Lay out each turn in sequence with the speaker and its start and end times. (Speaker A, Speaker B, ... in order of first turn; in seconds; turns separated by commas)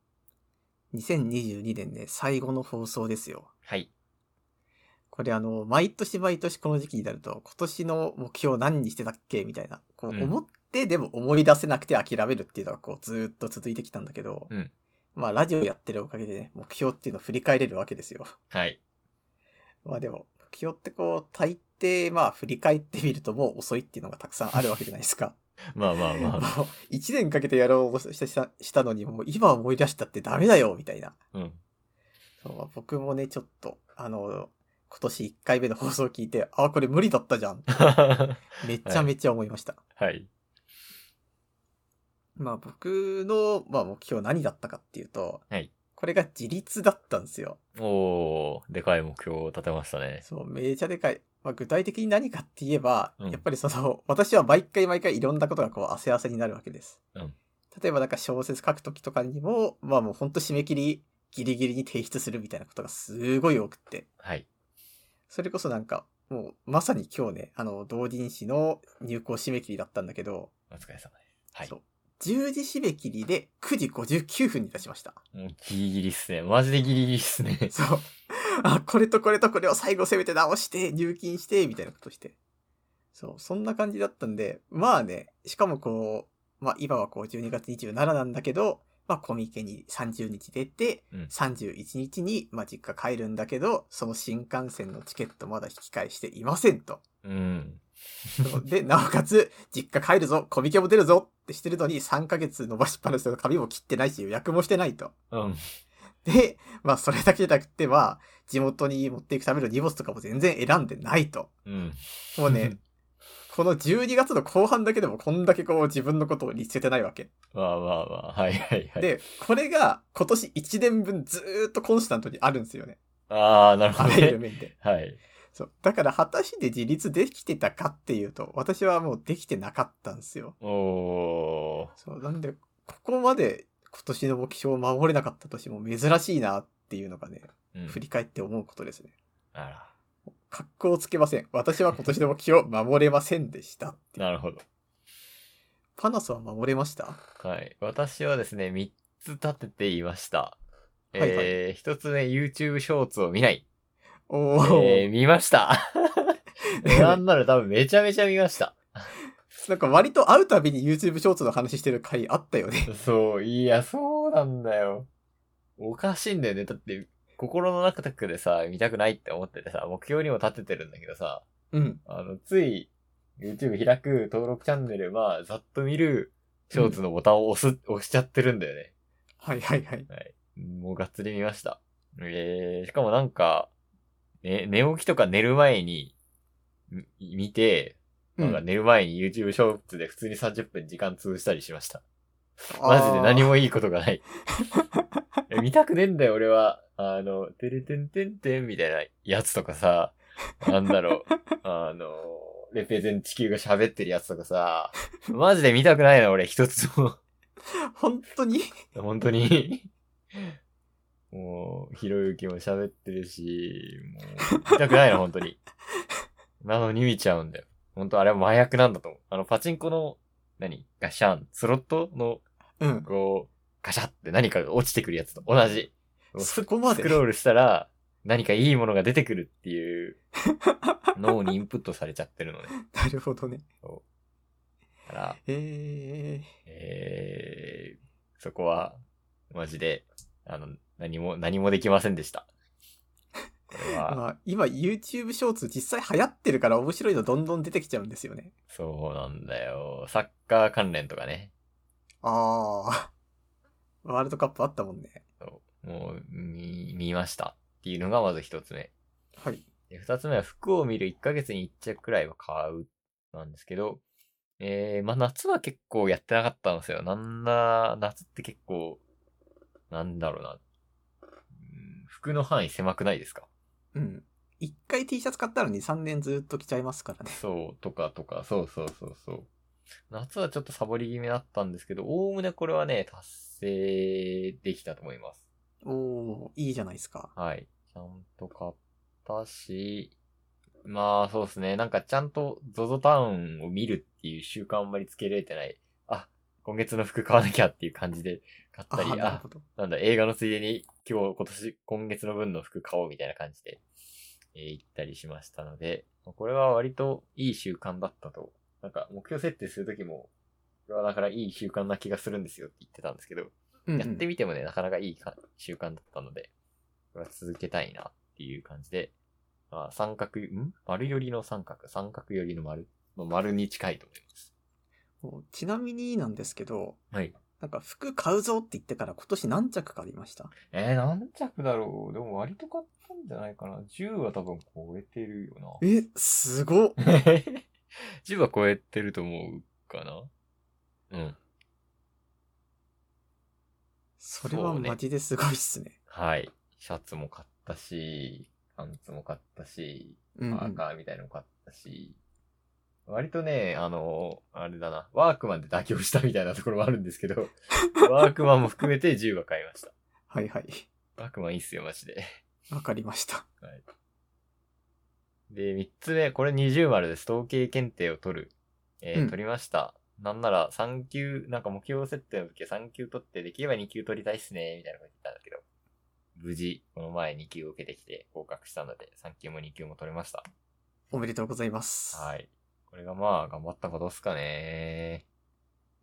Speaker A: 0.9-3.5, Speaker B: 3.6-3.9, Speaker A: 5.1-14.5, Speaker A: 15.2-18.3, Speaker B: 18.5-18.8, Speaker A: 19.9-25.4, Speaker B: 25.7-26.5, Speaker A: 26.1-31.2, Speaker B: 31.3-31.6, Speaker A: 32.4-37.9, Speaker B: 37.8-39.1, Speaker A: 38.6-39.8, Speaker B: 40.0-40.3, Speaker A: 42.4-45.4, Speaker A: 46.0-47.6, Speaker B: 47.8-50.2, Speaker A: 50.2-57.0, Speaker A: 57.7-64.1, Speaker B: 64.2-64.5, Speaker A: 65.3-70.5, Speaker B: 70.7-71.7, Speaker A: 71.7-75.2, Speaker B: 75.3-77.7, Speaker A: 77.7-82.4, Speaker A: 83.2-97.0, Speaker B: 97.2-98.5, Speaker A: 98.4-105.1, Speaker B: 105.3-105.6, Speaker A: 106.2-111.5, Speaker B: 111.7-112.8, Speaker A: 112.4-112.8, Speaker A: 113.5-117.3, Speaker B: 117.5-119.1, Speaker A: 119.0-123.0, Speaker B: 123.3-125.2, Speaker A: 124.0-124.7, Speaker A: 125.5-130.6, Speaker B: 130.6-131.9, Speaker A: 132.0-139.1, Speaker B: 137.7-138.0, Speaker B: 139.5-139.9, Speaker A: 140.5-144.2, Speaker B: 144.2-144.6, Speaker A: 146.0-147.2, Speaker B: 147.4-150.6, Speaker B: 151.1-153.6, Speaker A: 151.2-151.5, Speaker A: 154.3-155.1, Speaker B: 154.6-159.1, Speaker A: 156.6-157.2, Speaker A: 159.6-162.9, Speaker B: 162.9-165.1, Speaker B: 165.8-171.4, Speaker A: 171.7-172.0, Speaker B: 172.1-178.9, Speaker A: 179.4-180.1, Speaker B: 180.1-183.7, Speaker B: 184.4-186.1, Speaker B: 186.9-192.0, Speaker A: 188.4-188.6, Speaker A: 192.7-193.5, Speaker B: 192.7-194.2, Speaker A: 194.7-195.0, Speaker B: 195.5-207.2, Speaker A: 207.9-208.7, Speaker B: 208.9-210.5, Speaker B: 211.3-215.6, Speaker B: 216.6-222.4, Speaker A: 222.8-223.1, Speaker B: 223.1-230.2, Speaker A: 226.4-227.2, Speaker A: 230.7-230.9, Speaker B: 231.2-232.8, Speaker A: 232.8-233.7, Speaker B: 235.1-235.4, Speaker A: 235.4-236.5, Speaker B: 236.7-242.5, Speaker B: 243.7-244.2, Speaker A: 243.9-248.5, Speaker B: 248.7-251.5, Speaker A: 252.2-253.1, Speaker A: 254.0-255.2, Speaker B: 255.4-258.9, Speaker A: 259.4-259.7, Speaker B: 259.9-264.0, Speaker B: 264.6-269.0, Speaker B: 269.9-270.6, Speaker B: 271.6-273.5, Speaker A: 273.9-277.4, Speaker B: 277.4-279.5, Speaker B: 280.1-285.4, Speaker A: 285.8-287.3, Speaker B: 287.4-290.1, Speaker B: 290.9-303.8, Speaker A: 298.9-299.6, Speaker B: 304.5-310.3, Speaker B: 310.9-316.5, Speaker A: 313.9-314.2, Speaker B: 317.1-319.1, Speaker B: 319.7-324.5, Speaker A: 325.2-327.0, Speaker A: 327.6-330.5, Speaker B: 330.7-335.8, Speaker A: 335.8-337.0, Speaker B: 337.0-337.6, Speaker B: 338.2-340.3, Speaker B: 341.1-341.4, Speaker A: 344.2-346.0, Speaker B: 344.4-345.0, Speaker B: 346.1-352.2, Speaker A: 350.4-350.8, Speaker B: 353.1-359.9, Speaker A: 360.3-360.9, Speaker B: 361.2-362.3, Speaker A: 362.7-363.5, Speaker B: 365.5-375.6, Speaker B: 376.4-380.5, Speaker A: 381.1-382.3, Speaker B: 382.1-385.2